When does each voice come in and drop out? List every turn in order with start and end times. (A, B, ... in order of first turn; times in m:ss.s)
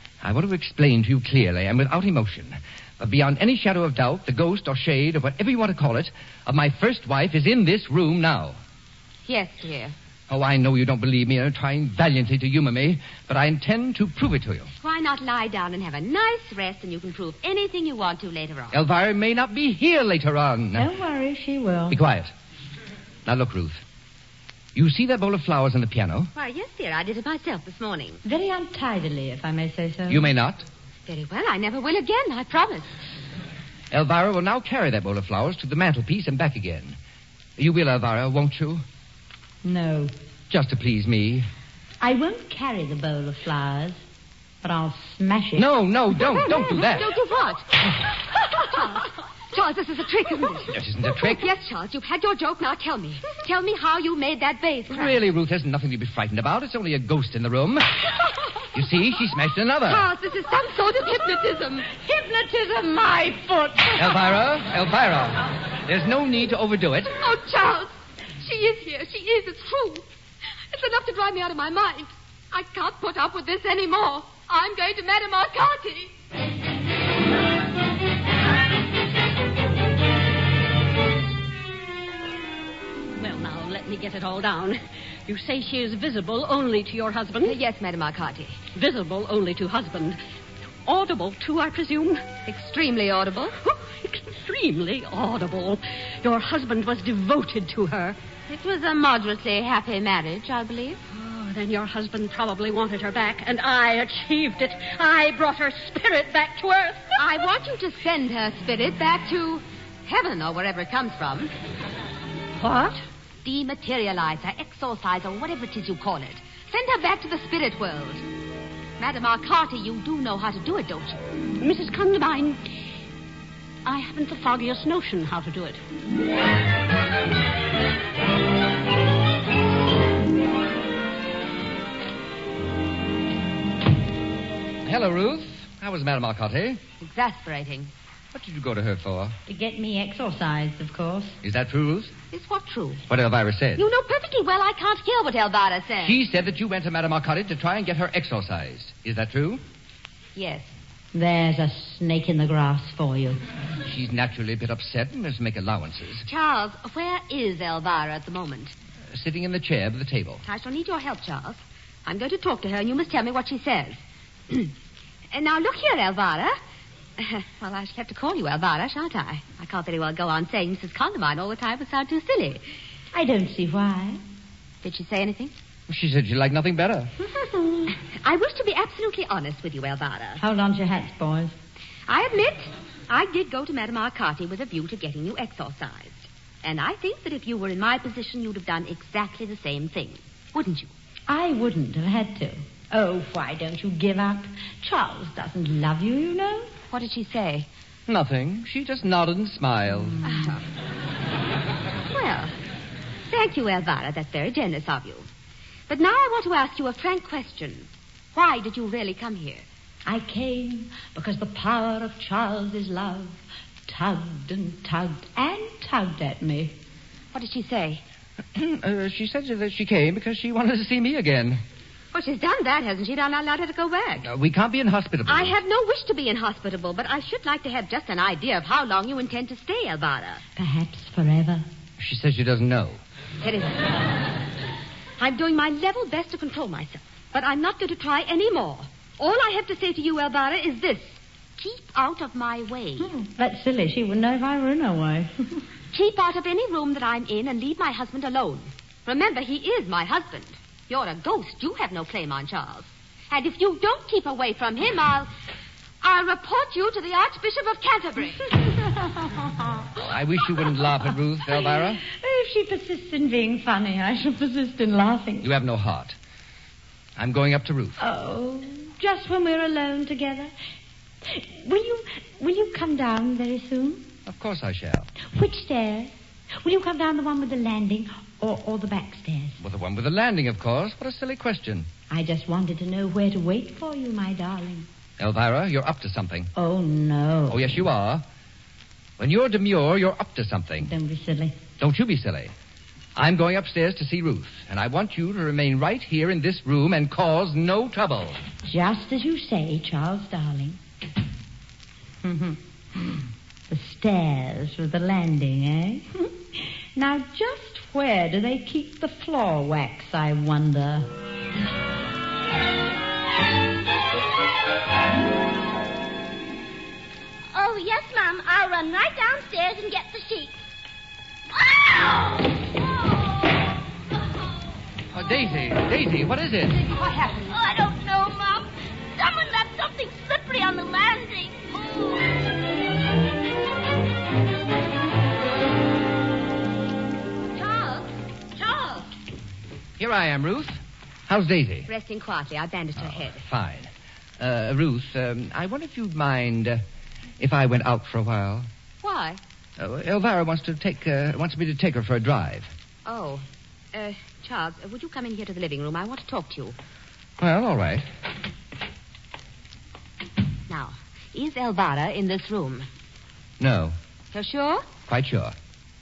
0:00.2-0:08.6 A
0:09.2-0:09.9 B
0:10.3-0:14.7 A
0:14.8-0:18.8 B
0:18.7-0:20.9 A
0:20.8-0:22.0 C
0:21.9-0:22.3 A
0:23.3-0:23.8 A
0:24.8-0:26.3 A
0:26.3-0:28.2 B
0:28.2-0:30.2 C
0:30.1-0:30.7 A
0:31.1-0:32.9 B
0:33.9-0:37.0 A
0:37.6-0:38.8 A
0:39.6-0:40.1 C
0:40.5-0:41.5 A
0:42.0-0:44.0 C
0:44.6-0:45.7 C
0:45.6-0:47.1 A
0:46.1-0:47.9 B
0:48.6-0:55.2 B
0:50.7-0:51.4 A
0:54.9-0:58.0 A
0:58.7-1:00.1 A
0:59.9-1:02.0 B
1:02.0-1:04.0 C
1:03.9-1:07.2 A
1:07.2-1:10.0 B
1:10.7-1:16.1 B
1:23.2-1:27.6 D
1:27.4-1:28.6 B
1:28.7-1:30.2 D
1:30.8-1:32.2 D
1:32.4-1:33.5 B
1:33.6-1:38.2 D
1:38.5-1:41.0 B
1:41.1-1:47.2 D
1:47.2-1:51.5 B
1:52.6-1:53.0 D
1:53.4-1:58.2 B
1:59.0-2:01.2 B
2:01.6-2:02.6 D
2:03.8-2:05.8 D
2:14.8-2:16.8 A
2:17.0-2:17.9 B
2:18.3-2:19.4 A
2:19.5-2:21.4 C
2:21.4-2:22.1 A
2:22.3-2:23.0 B
2:23.1-2:23.8 A
2:23.8-2:26.2 B
2:26.0-2:29.6 A
2:30.4-2:30.7 B
2:31.1-2:33.4 C
2:33.8-2:36.3 A
2:36.2-2:38.7 B
2:39.1-2:40.4 A
2:40.4-2:44.7 B
2:45.3-2:46.6 B
2:47.2-2:52.6 B
2:53.1-2:54.2 C
2:54.8-2:55.5 B
2:55.9-2:57.1 A
2:57.4-2:57.9 C
2:57.9-3:00.4 B
3:00.4-3:01.6 C
3:02.1-3:10.9 B
3:11.3-3:16.7 C
3:16.9-3:17.7 B
3:18.1-3:20.2 A
3:20.2-3:20.6 B
3:22.1-3:22.6 B
3:23.3-3:25.3 B
3:25.9-3:29.6 B
3:30.0-3:36.7 C
3:37.3-3:38.0 B
3:38.6-3:41.6 A
3:42.1-3:44.3 B
3:44.2-3:45.6 A
3:45.3-3:50.4 B
3:50.6-3:51.7 C
3:52.0-3:53.0 A
3:53.4-3:54.0 B
3:55.2-4:03.1 B
4:03.0-4:05.6 C
4:05.9-4:15.3 B
4:16.0-4:18.6 B
4:19.0-4:19.4 C
4:20.0-4:22.0 A
4:22.0-4:25.5 C
4:25.4-4:26.2 A
4:27.2-4:28.0 A
4:28.0-4:30.5 C
4:31.2-4:34.1 C
4:34.3-4:35.1 A
4:35.3-4:39.6 C
4:39.6-4:41.9 A
4:42.1-4:44.9 C
4:45.2-4:46.5 A
4:46.6-4:47.7 C
4:47.5-4:48.2 A
4:49.2-4:50.9 A
4:50.8-4:51.6 C
4:51.8-4:52.5 A
4:53.2-4:58.4 A
4:58.7-5:00.8 C
5:02.2-5:11.1 C
5:17.5-5:20.6 E
5:21.5-5:22.8 E
5:25.1-5:26.8 A
5:26.8-5:27.5 B
5:27.5-5:32.4 E
5:37.5-5:39.1 B
5:40.0-5:41.9 A
5:41.9-5:43.4 B
5:43.0-5:46.8 A
5:47.4-5:48.7 A
5:49.0-5:49.4 B
5:49.8-5:52.7 A
5:53.0-5:56.8 B
5:57.4-5:58.1 A
6:00.7-6:02.9 B
6:03.6-6:04.0 A
6:04.3-6:04.9 B
6:05.1-6:05.6 A